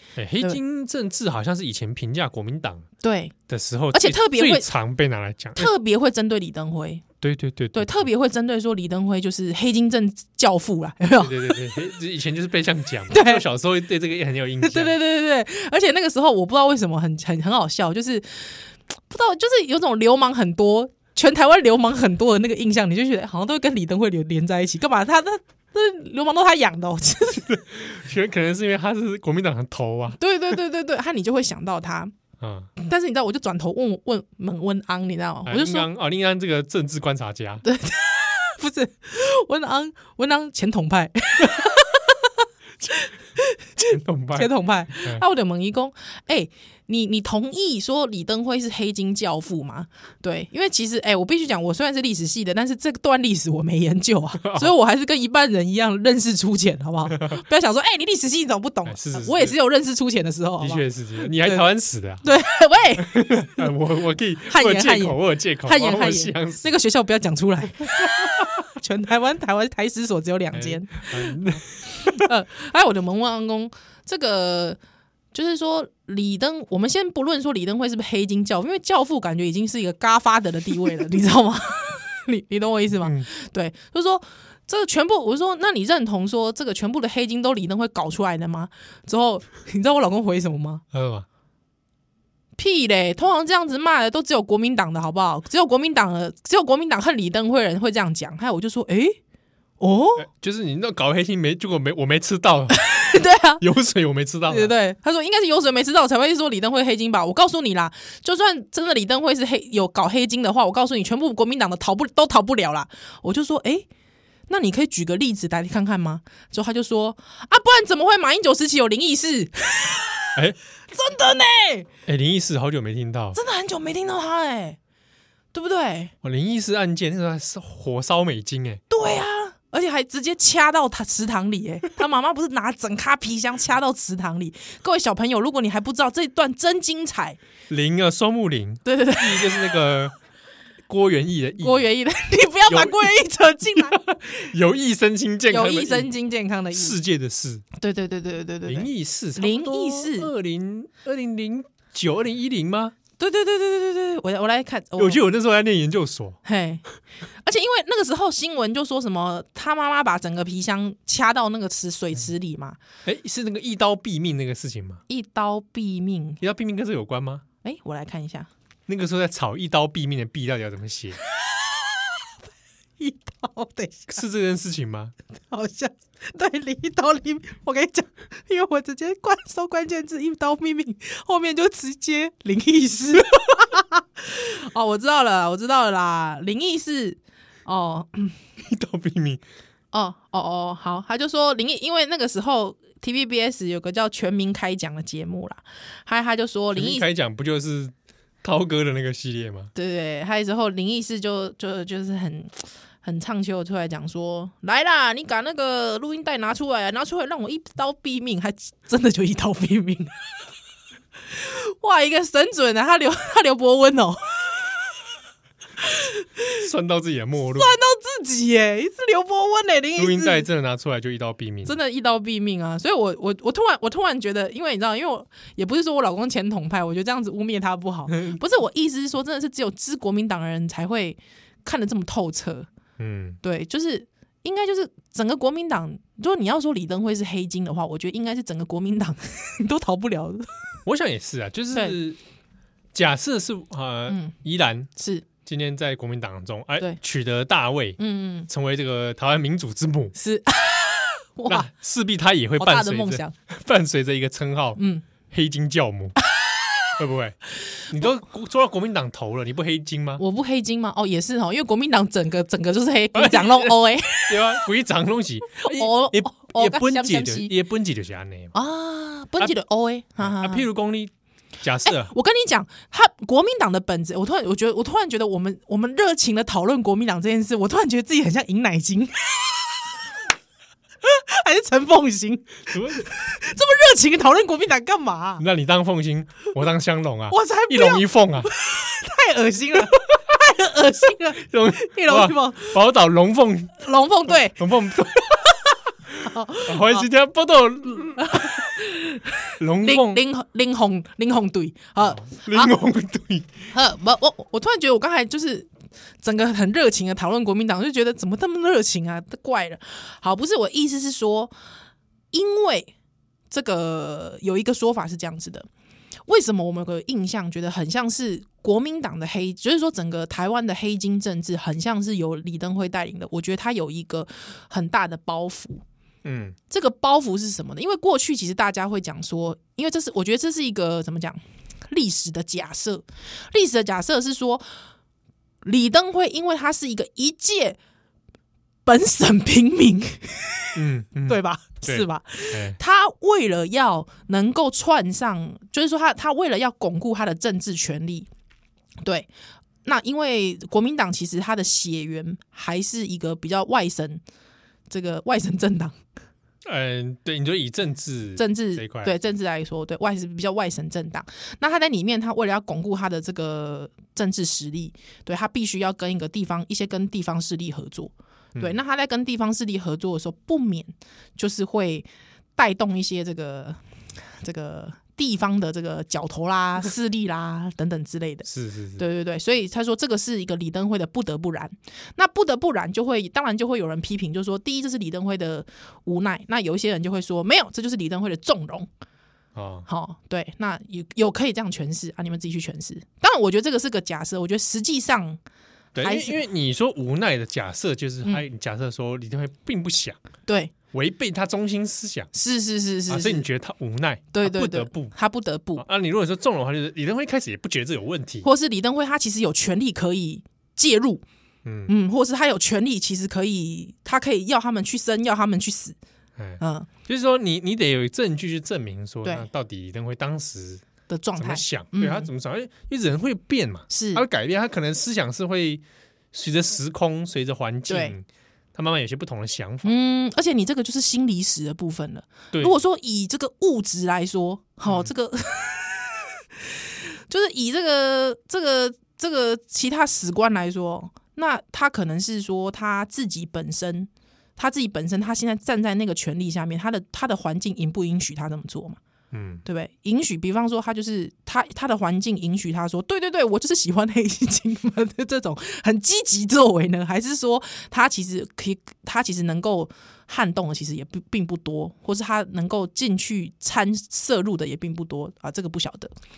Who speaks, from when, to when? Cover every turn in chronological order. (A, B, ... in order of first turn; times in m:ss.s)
0:00.2-0:02.9 A
0:03.0-0:03.3 B
0:03.5-0:05.7 A
0:03.9-0:04.7 B
0:05.6-0:07.0 B
0:07.2-0:08.1 A
0:07.7-0:11.7 B
0:11.2-0:15.0 A
0:13.1-0:13.4 B
0:14.6-0:27.5 B
0:27.4-0:30.2 A
0:30.2-0:32.1 B
0:32.4-0:32.7 A
0:32.8-0:35.9 B
0:35.4-0:37.6 A
0:37.6-1:01.6 B
0:43.9-0:44.5 A
0:54.4-0:54.7 A
0:58.8-0:59.5 A
1:00.6-1:02.2 A
1:02.2-1:03.7 B
1:03.0-1:06.7 A
1:04.5-1:11.3 B
1:10.5-1:12.3 A
1:12.1-1:14.8 B
1:15.3-1:30.8 B
1:23.0-1:23.3 A
1:30.9-1:31.2 A
1:32.6-1:39.2 B
1:39.8-1:40.2 B
1:40.2-1:42.9 A
1:42.7-1:43.6 B
1:43.6-1:44.7 A
1:44.5-1:53.9 B
1:54.5-2:00.3 B
2:00.9-2:01.9 B
2:02.0-2:03.4 A
2:03.3-2:04.8 B
2:05.5-2:06.1 B
2:06.2-2:08.8 A
2:08.9-2:17.4 B
2:17.7-2:20.1 A
2:18.8-2:19.8 B
2:20.9-2:21.8 A
2:21.6-2:24.5 B
2:22.7-2:26.1 A
2:25.5-2:27.0 B
2:26.7-2:27.6 A
2:27.8-2:30.3 B
2:28.6-2:32.9 A
2:33.2-2:35.2 B
2:35.0-2:36.4 A
2:36.4-2:36.8 B
2:37.4-2:42.8 B
2:43.0-2:45.0 A
2:45.1-2:46.4 B
2:46.4-2:47.4 A
2:47.6-2:48.5 B
2:48.9-2:51.2 A
2:51.5-2:52.1 B
2:53.0-2:54.2 B
2:54.1-2:55.1 A
2:55.5-3:08.4 B
3:08.6-3:09.4 A
3:09.9-3:17.0 B
3:16.7-3:19.7 A
3:19.7-3:30.1 B
3:31.3-3:34.6 B
3:35.8-3:36.6 B
3:36.6-3:37.7 A
3:37.5-3:40.4 B
3:40.0-3:41.8 A
3:41.6-3:52.7 B
3:48.1-3:48.4 A
3:53.0-3:53.4 A
3:53.4-4:00.5 B
4:00.8-4:02.2 A
4:02.9-4:04.9 A
4:04.1-4:04.3 B
4:05.0-4:05.2 B
4:05.4-4:10.1 A
4:08.0-4:08.5 B
4:10.1-4:11.7 B
4:11.5-4:16.2 A
4:12.6-4:13.3 B
4:14.8-4:15.0 B
4:17.0-4:20.2 A
4:20.2-4:24.6 B
4:23.1-4:28.5 A
4:25.5-4:27.5 B
4:28.5-4:30.7 B
4:30.2-4:32.1 A
4:31.8-4:39.7 B
4:41.0-4:45.4 B
4:42.7-4:43.0 A
4:45.4-4:48.5 A
4:47.3-4:52.8 B
4:51.5-4:55.5 A
4:53.8-4:54.7 B
4:55.2-4:55.7 B
4:56.1-4:58.6 A
4:56.2-4:57.1 B
4:58.2-5:02.8 B
4:59.6-5:00.2 A
5:02.0-5:03.5 A
5:03.7-5:05.7 B
5:06.2-5:11.5 B
5:12.3-5:12.9 B
5:13.5-5:15.7 B
5:16.3-5:25.8 B
5:26.2-5:26.6 A
5:26.7-5:34.7 B
5:35.6-5:37.8 B
5:38.8-5:40.8 B
5:40.7-5:42.8 A
5:41.3-5:48.3 B
5:49.0-5:49.3 B
5:49.8-5:54.2 B
5:54.9-5:56.0 B
5:56.6-5:59.1 A
5:58.4-6:13.8 B
6:14.4-6:28.9 B
6:18.5-6:19.0 A
6:29.5-6:29.9 A
6:29.9-6:35.4 B
6:35.9-6:40.2 A
6:36.0-6:36.4 B
6:40.5-6:40.7 B
6:40.9-6:42.3 A
6:42.3-6:43.5 B
6:43.1-6:45.1 A
6:44.3-6:45.8 B
6:45.8-6:48.5 A
6:48.4-6:51.2 B
6:51.6-6:51.9 A
6:51.9-6:56.0 B
6:56.4-7:00.8 A
6:56.6-6:56.9 B
7:01.1-7:02.3 B
7:01.4-7:09.9 A
7:03.9-7:04.2 B
7:07.9-7:08.2 B
7:09.8-7:16.3 B
7:16.8-7:29.0 B
7:29.3-7:29.6 A
7:29.6-7:46.1 B